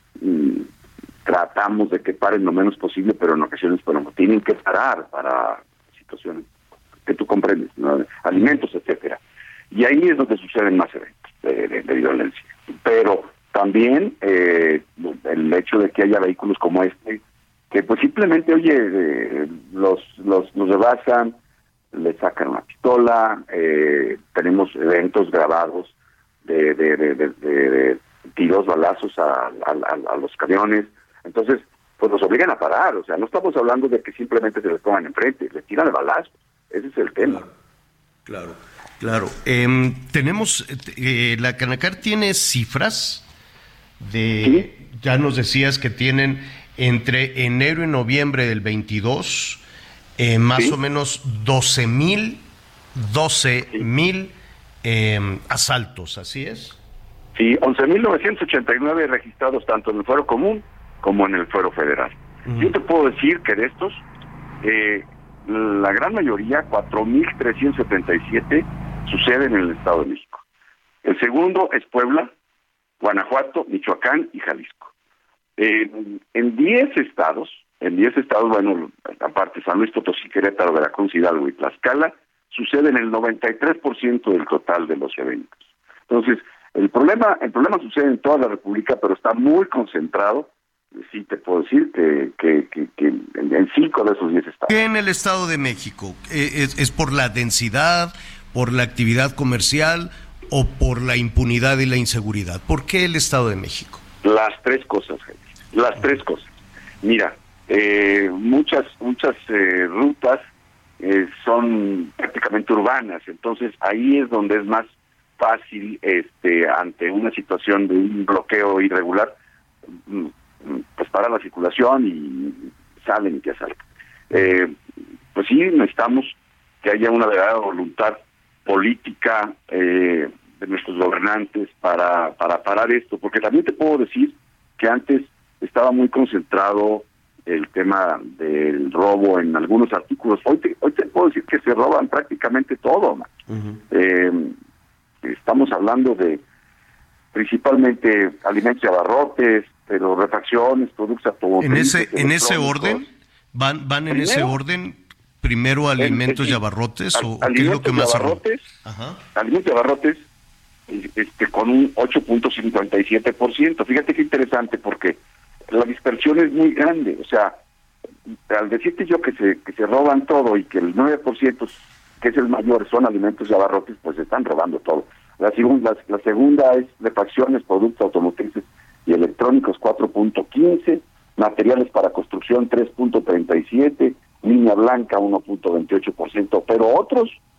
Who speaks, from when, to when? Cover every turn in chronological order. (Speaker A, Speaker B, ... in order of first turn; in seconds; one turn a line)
Speaker A: 0.2-0.7
Speaker A: 1.2-6.5
Speaker A: 7.0-9.2
Speaker A: 9.7-17.2
Speaker A: 17.7-21.3
Speaker A: 21.9-25.9
Speaker A: 26.4-37.4
Speaker B: 38.2-43.2
Speaker B: 44.0-49.6
Speaker A: 44.4-44.7
Speaker B: 50.2-52.4
Speaker B: 52.9-56.8
Speaker A: 57.4-64.0
Speaker B: 62.5-62.7
Speaker A: 64.6-70.4
Speaker A: 71.0-72.3
Speaker A: 73.0-74.9
Speaker A: 75.6-85.5
Speaker A: 86.1-90.5
Speaker A: 91.0-94.8
Speaker B: 94.7-104.0
Speaker A: 104.2-106.5
Speaker A: 107.0-110.4
Speaker A: 111.0-119.3
Speaker A: 120.1-124.8
Speaker A: 125.3-143.3
Speaker B: 143.5-143.8
Speaker A: 143.9-144.5
Speaker A: 145.2-146.4
Speaker A: 147.3-153.0
Speaker B: 151.6-159.2
Speaker A: 154.1-154.5
Speaker A: 156.0-156.6
Speaker A: 157.1-158.6
Speaker A: 159.3-160.2
Speaker A: 160.9-165.2
Speaker A: 165.7-167.6
Speaker A: 168.5-187.4